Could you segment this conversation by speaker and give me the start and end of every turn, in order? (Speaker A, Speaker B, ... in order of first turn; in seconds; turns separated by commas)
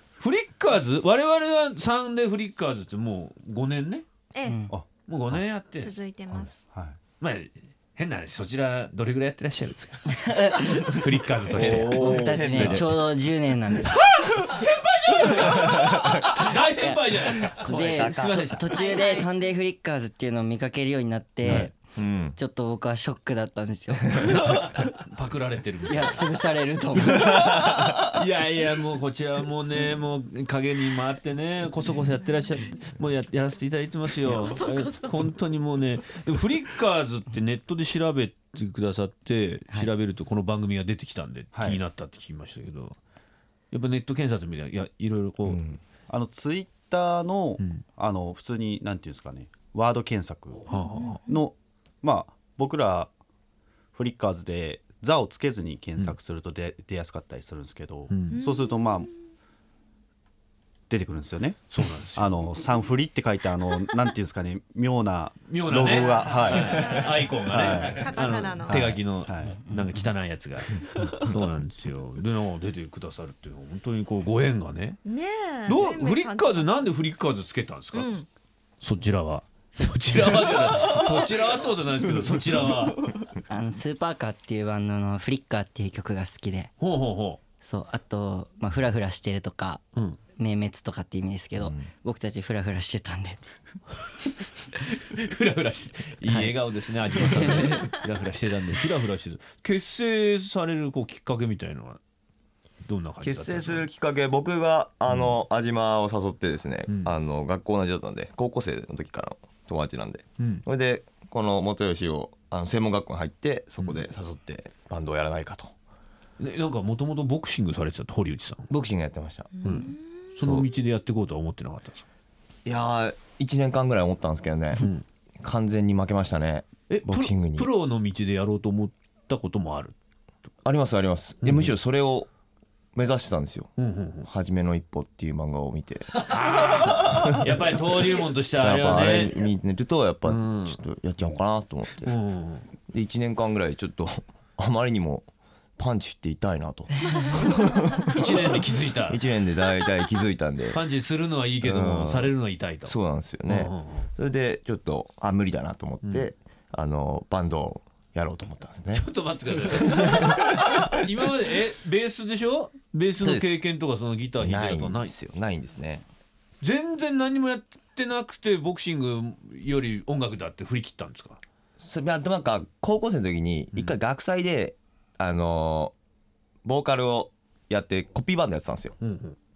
Speaker A: 0.2-4.1, Speaker B: 4.3-4.6, Speaker C: 4.4-4.7, Speaker D: 4.7-5.4, Speaker A: 5.1-5.9, Speaker B: 5.6-6.6, Speaker D: 6.3-7.0, Speaker A: 7.2-12.8, Speaker C: 10.2-14.0, Speaker D: 11.5-12.8, Speaker E: 11.6-13.1, Speaker A: 13.8-18.8, Speaker B: 15.4-15.7, Speaker C: 16.7-24.3, Speaker E: 17.7-18.6, Speaker B: 18.7-19.4, Speaker D: 21.4-21.7, Speaker E: 21.5-22.4, Speaker A: 24.2-26.3, Speaker C: 25.9-27.3, Speaker A: 27.0-43.0, Speaker E: 27.1-27.8, Speaker D: 34.3-34.6, Speaker B: 34.6-35.1, Speaker D: 41.5-41.8, Speaker A: 43.7-45.8, Speaker E: 45.4-45.8, Speaker D: 46.1-50.7, Speaker B: 50.7-51.4, Speaker A: 50.7-51.2, Speaker D: 51.2-53.1, Speaker D: 53.9-59.1, Speaker A: 58.1-58.4, Speaker B: 58.3-59.0, Speaker D: 60.9-69.6, Speaker A: 61.7-62.3, Speaker A: 65.5-75.0, Speaker B: 65.9-68.8, Speaker B: 75.0-76.9, Speaker A: 75.7-78.1, Speaker B: 77.9-78.3, Speaker A: 78.8-83.1, Speaker B: 81.0-81.5, Speaker C: 83.5-86.7, Speaker A: 86.8-87.4, Speaker C: 87.6-89.8, Speaker C: 90.3-93.4, Speaker E: 91.6-91.8, Speaker A: 94.2-102.0, Speaker C: 96.2-96.6, Speaker C: 97.1-97.9, Speaker A: 102.8-103.9, Speaker E: 103.2-115.7, Speaker A: 105.1-105.4, Speaker A: 106.9-107.1, Speaker A: 116.4-118.7, Speaker E: 118.7-119.5, Speaker B: 119.5-120.3, Speaker A: 119.6-122.0, Speaker E: 120.4-120.7, Speaker E: 122.6-124.9, Speaker A: 124.8-125.0, Speaker E: 125.4-127.7, Speaker A: 126.9-129.9, Speaker E: 130.6-132.3, Speaker A: 131.4-131.8, Speaker E: 132.9-133.7, Speaker A: 133.8-134.3, Speaker E: 134.2-136.2, Speaker A: 136.2-139.4, Speaker E: 136.8-137.6, Speaker E: 138.5-142.2, Speaker A: 140.2-140.8, Speaker A: 142.0-142.7, Speaker E: 142.9-150.8, Speaker A: 148.1-149.2, Speaker A: 150.7-154.1, Speaker E: 151.6-159.1, Speaker A: 156.0-156.3, Speaker A: 158.9-165.2, Speaker E: 159.7-160.5, Speaker E: 163.2-163.6, Speaker E: 164.4-166.0, Speaker A: 166.6-171.4, Speaker E: 171.8-175.9, Speaker A: 173.7-174.0, Speaker E: 176.6-179.0, Speaker A: 179.0-179.4